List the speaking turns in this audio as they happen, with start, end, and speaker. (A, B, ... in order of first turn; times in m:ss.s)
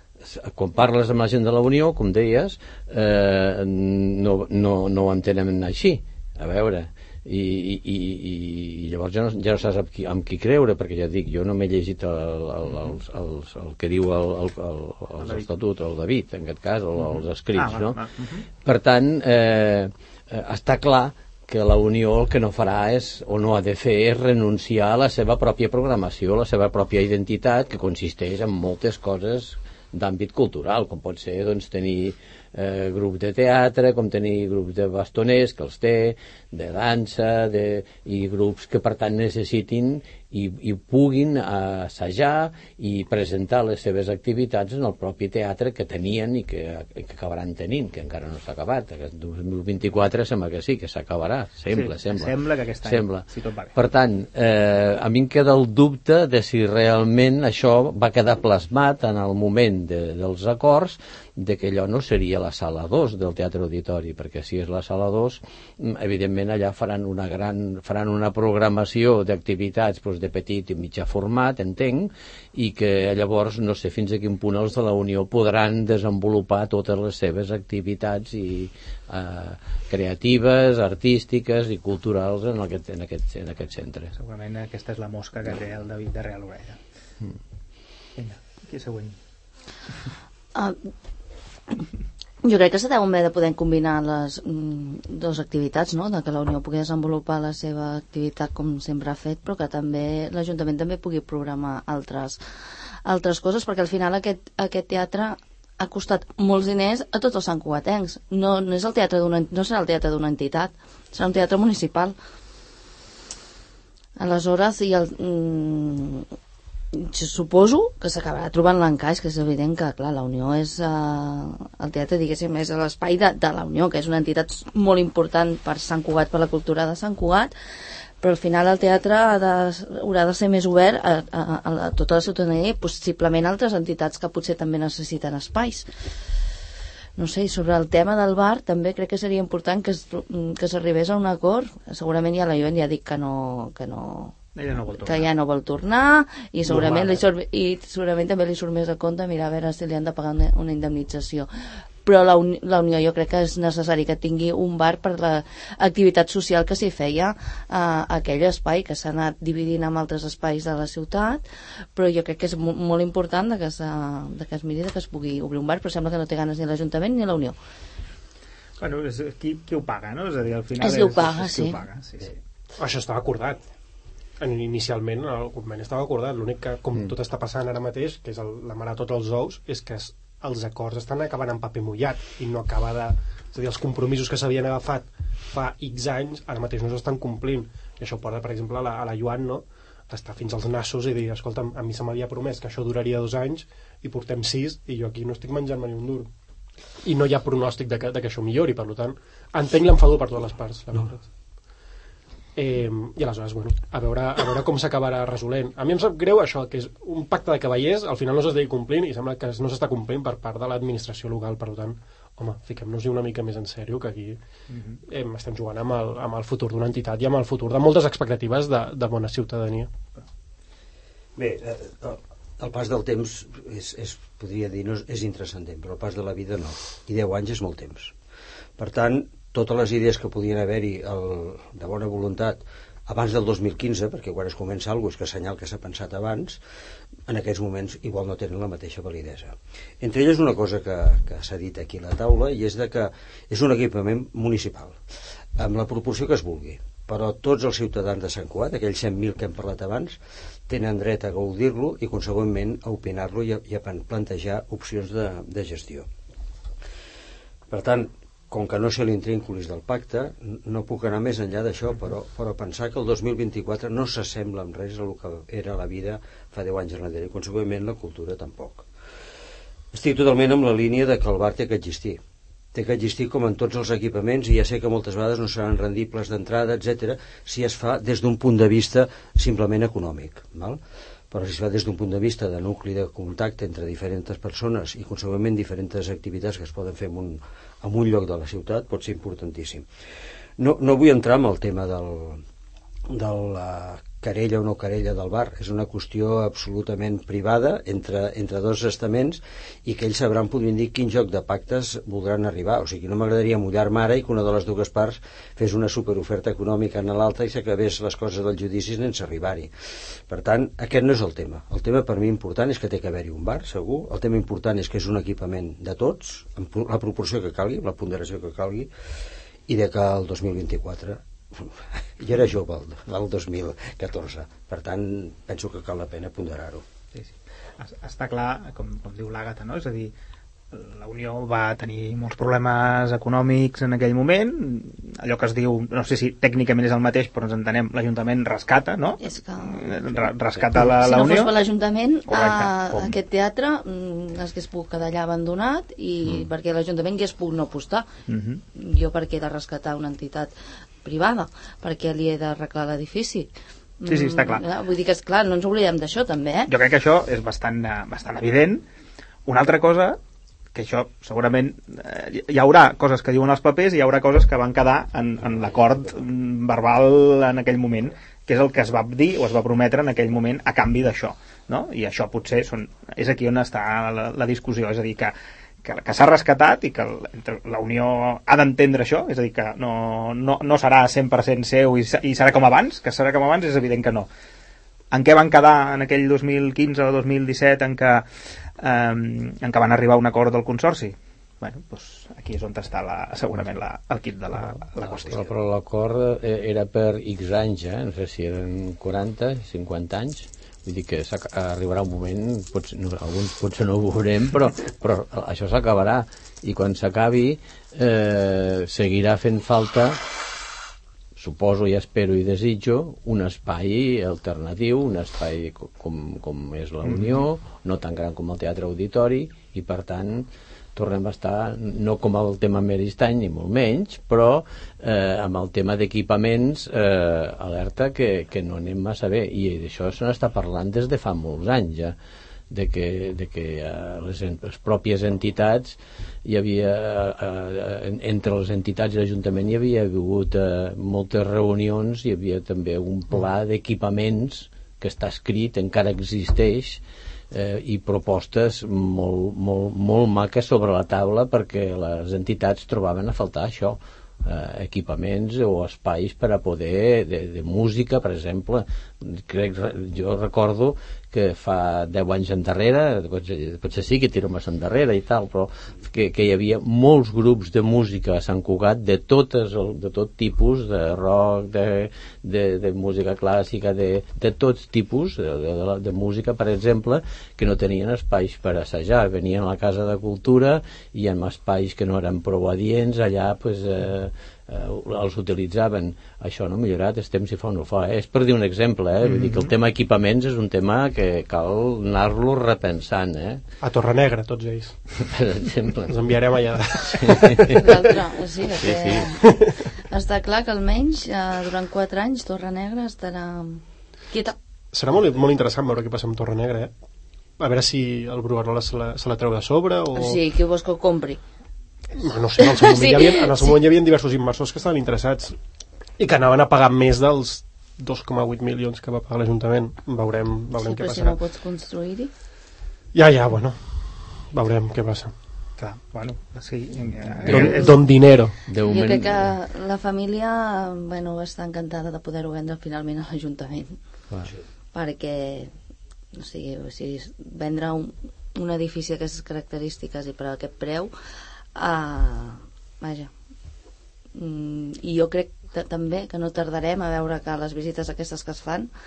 0:00.2-0:18.0 A
0:12.7-0:13.0 B
0:15.2-0:15.5 B
0:17.0-0:18.5 B
0:18.6-0:52.3 A
0:51.7-0:53.7 B
0:52.8-0:53.2 A
0:53.8-1:24.1 A
1:24.2-1:26.8 B
1:28.2-1:29.2 B
1:32.4-1:42.4 C
1:43.0-1:52.2 C
1:54.2-1:56.3 C
1:56.9-2:07.5 C
2:08.2-2:15.9 C
2:17.2-2:24.4 C
2:24.6-2:25.3 B
2:24.9-2:31.5 C
2:26.7-2:27.2 B
2:32.0-2:41.4 C
2:42.0-2:47.6 C
2:48.8-2:52.4 B
2:50.8-2:51.8 C
2:52.8-2:53.6 D
2:54.4-3:16.3 D
3:17.0-3:21.3 D
3:22.6-3:34.4 D
3:34.7-3:35.0 B
3:35.1-3:39.9 D
3:41.4-3:48.1 E
3:48.8-3:56.6 E
3:57.3-4:05.0 E
4:05.6-4:16.1 E
4:17.7-4:28.9 E
4:29.9-4:32.2 E
4:32.7-4:40.8 E
4:41.3-4:49.9 E
4:50.6-4:52.4 E
4:53.1-5:09.7 E
5:10.3-5:18.9 E
5:19.7-5:26.8 E
5:27.1-5:30.1 B
5:30.7-5:41.6 B
5:39.2-5:48.1 C
5:42.3-5:43.2 B
5:48.3-5:48.6 B
5:48.8-5:50.5 C
5:51.0-5:56.7 C
5:54.1-5:54.6 B
5:56.7-5:58.8 B
5:59.5-6:00.2 B
6:00.8-6:24.3 B
6:25.1-6:28.3 B
6:28.8-6:35.5 B
6:35.0-6:50.2 A
6:51.4-7:12.2 A
6:57.0-6:57.4 B
7:12.7-8:13.6 A
8:09.2-8:09.7 B
8:13.8-8:15.0 D
8:15.2-8:16.3 A
8:16.1-8:18.1 D
8:17.0-8:17.8 A
8:17.7-8:19.4 C
8:18.8-8:19.3 A
8:19.4-8:19.8 D
8:20.1-8:24.6 C
8:24.9-8:26.9 D
8:27.6-8:30.4 D
8:30.1-8:31.4 C
8:32.2-8:35.6 D
8:32.6-8:33.8 C
8:36.2-8:41.4 D
8:40.8-8:42.3 C
8:43.1-8:45.3 D
8:45.8-8:48.0 B
8:47.5-8:47.9 A
8:47.5-8:48.6 D
8:48.7-8:49.5 A
8:48.8-8:54.0 C
8:54.9-8:55.7 C
8:56.4-9:01.1 C
9:01.8-9:03.3 C
9:04.4-9:08.9 C